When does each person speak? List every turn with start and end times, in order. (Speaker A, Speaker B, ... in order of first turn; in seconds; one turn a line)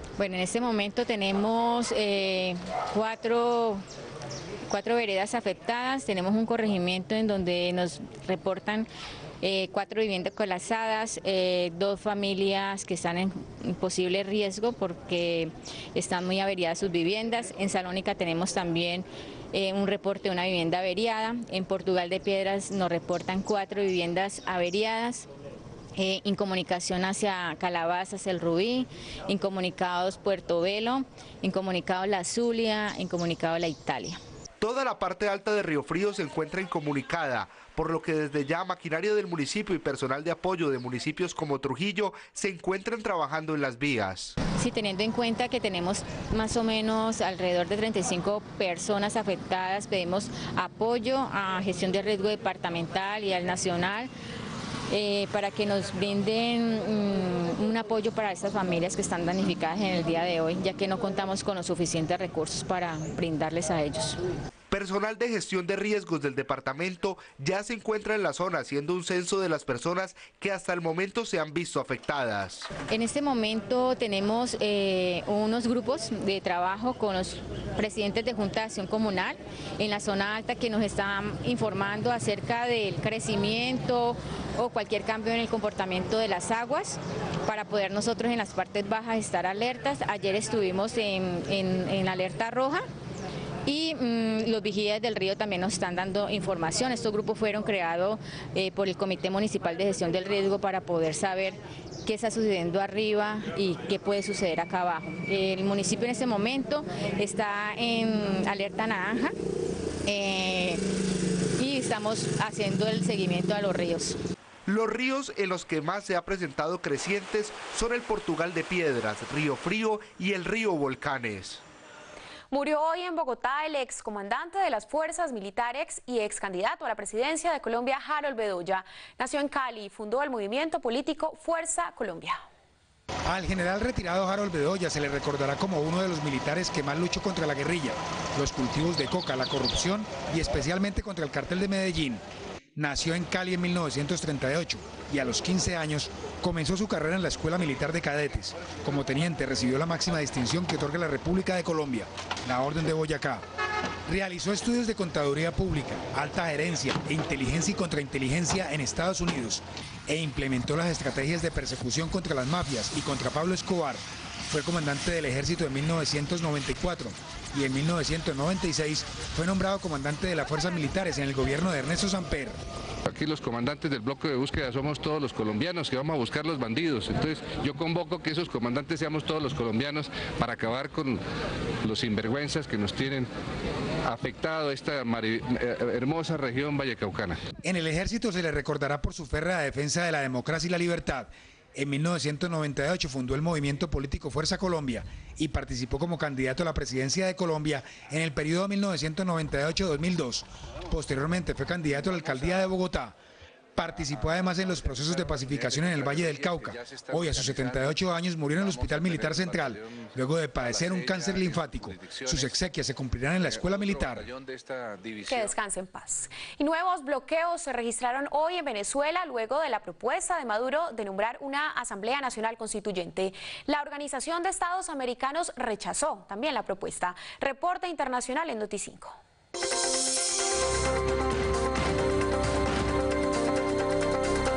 Speaker A: 0.2-3.8
Speaker A: 4.7-8.9
Speaker A: 9.4-25.3
Speaker A: 26.0-34.2
Speaker B: 34.6-44.4
Speaker A: 44.6-54.1
Speaker A: 54.9-64.2
Speaker B: 64.7-72.7
Speaker A: 72.9-92.8
Speaker A: 93.7-109.3
Speaker A: 110.1-110.8
Speaker A: 111.6-114.2
Speaker B: 114.7-121.6
Speaker C: 122.5-132.4
Speaker D: 133.3-142.2
Speaker D: 142.8-153.4
Speaker D: 154.1-172.6
Speaker E: 173.1-181.2
Speaker E: 181.8-183.3
Speaker E: 184.1-187.4
Speaker D: 187.6-203.2
Speaker E: 201.9-202.8
Speaker D: 203.8-214.3
Speaker E: 203.9-212.7
Speaker E: 213.4-215.5
Speaker C: 215.3-229.2